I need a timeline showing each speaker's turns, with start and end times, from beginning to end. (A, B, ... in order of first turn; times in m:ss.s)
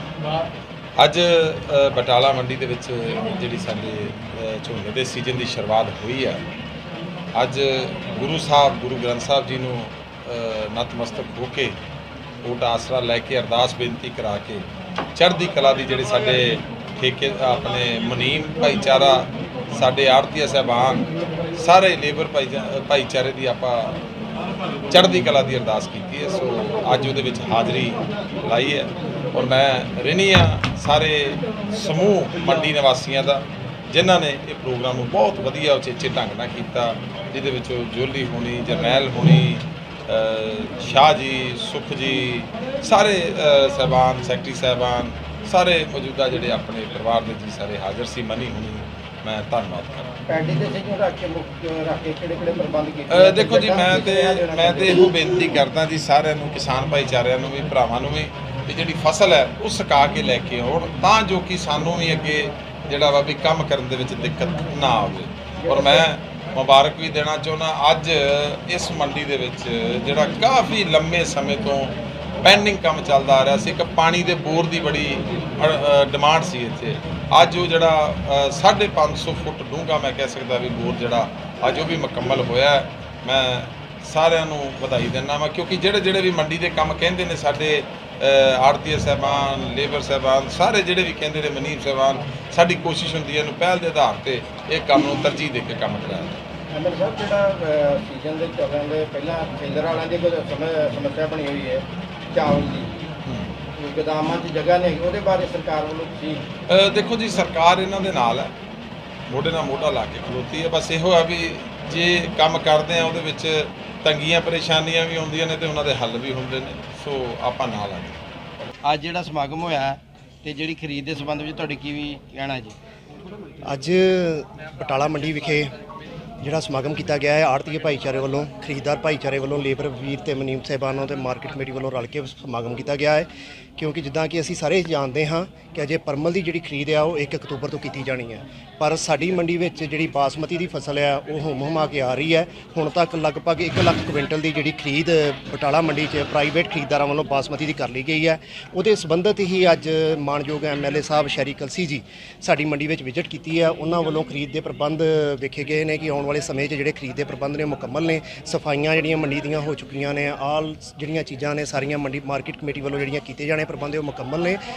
0:01.0-0:06.4 A
0:07.3-0:11.8 A
0:12.4-0:21.0 A
0:21.6-0:24.0 A
0:24.9-0:50.2 A
0:50.3-0:55.1 B
0:53.1-1:36.4 A
1:05.6-1:06.0 B
1:36.7-1:43.1 B
1:43.2-1:43.5 A
1:43.8-1:46.4 B
1:46.7-1:48.5 A
1:49.3-1:58.2 A
1:58.8-2:02.8 B
2:03.7-2:05.7 C
2:06.4-2:44.6 C